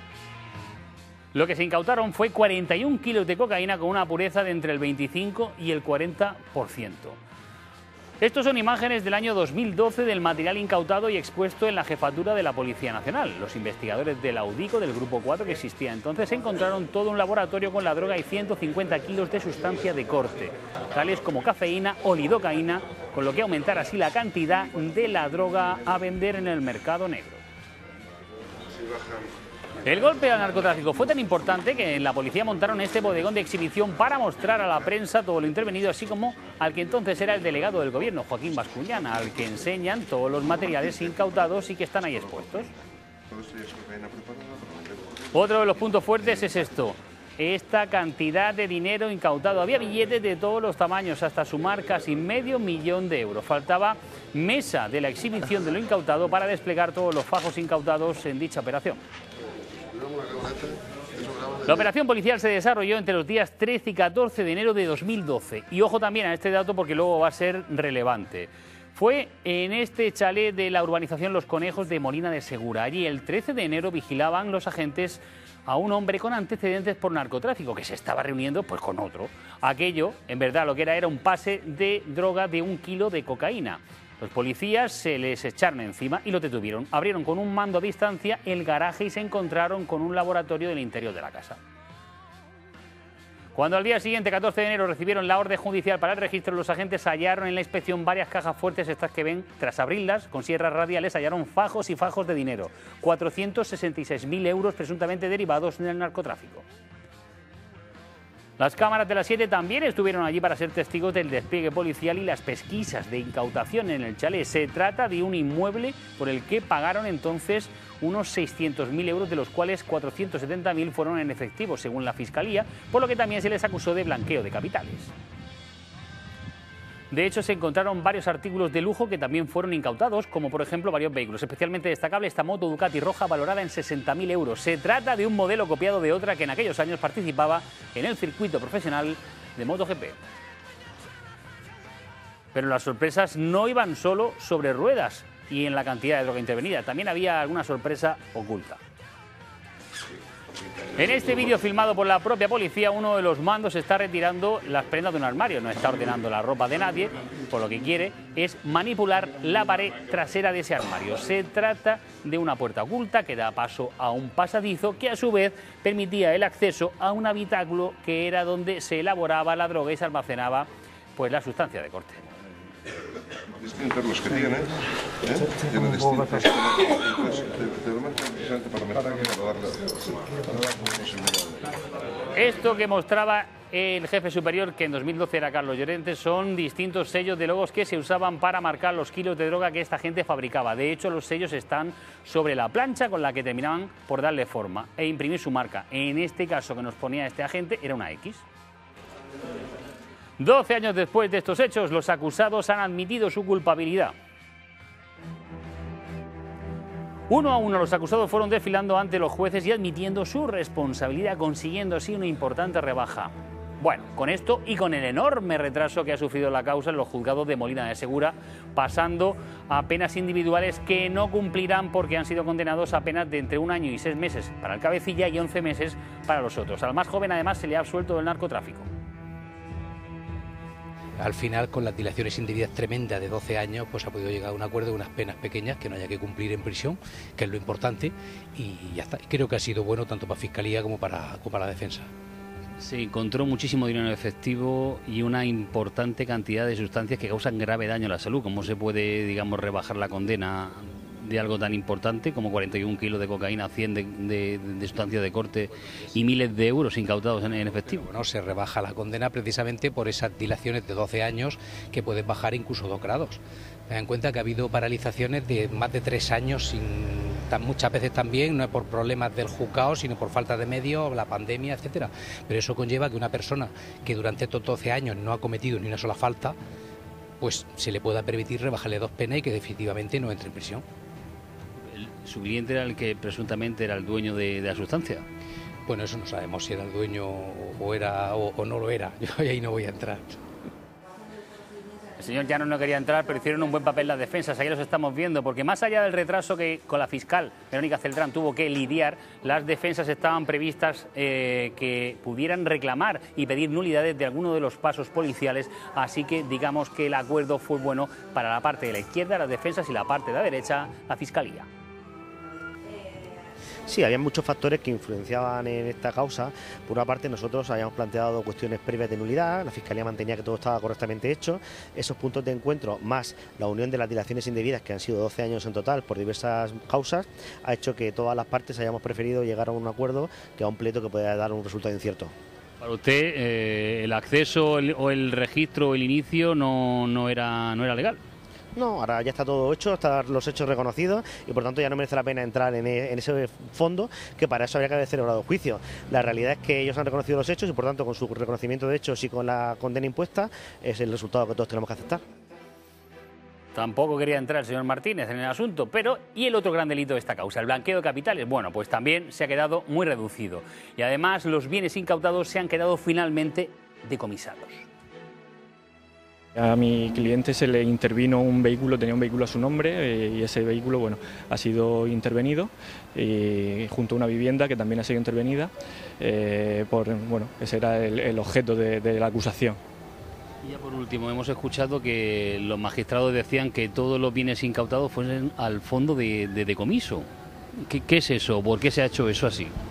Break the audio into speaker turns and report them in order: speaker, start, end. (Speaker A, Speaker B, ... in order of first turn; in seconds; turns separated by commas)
Speaker A: 1.3-7.2, Speaker A: 8.2-27.4, Speaker A: 29.8-42.7, Speaker B: 43.3-45.1, Speaker A: 45.3-59.0, Speaker A: 61.6-91.6, Speaker A: 93.5-106.6, Speaker A: 108.6-125.1, Speaker A: 127.1-140.2, Speaker A: 142.5-148.8, Speaker A: 150.9-172.3, Speaker B: 173.6-174.7, Speaker B: 175.2-181.7, Speaker A: 182.3-198.4, Speaker A: 200.4-204.1, Speaker A: 207.3-228.9, Speaker C: 231.2-242.1, Speaker A: 242.8-258.1, Speaker C: 258.0-276.6, Speaker C: 277.4-280.8, Speaker A: 281.9-285.2, Speaker C: 285.9-290.4, Speaker A: 292.2-311.7, Speaker D: 313.9-332.3, Speaker A: 332.8-338.2, Speaker D: 338.7-352.2, Speaker A: 353.7-364.9, Speaker E: 366.6-379.8, Speaker A: 380.6-387.3, Speaker A: 387.8-389.7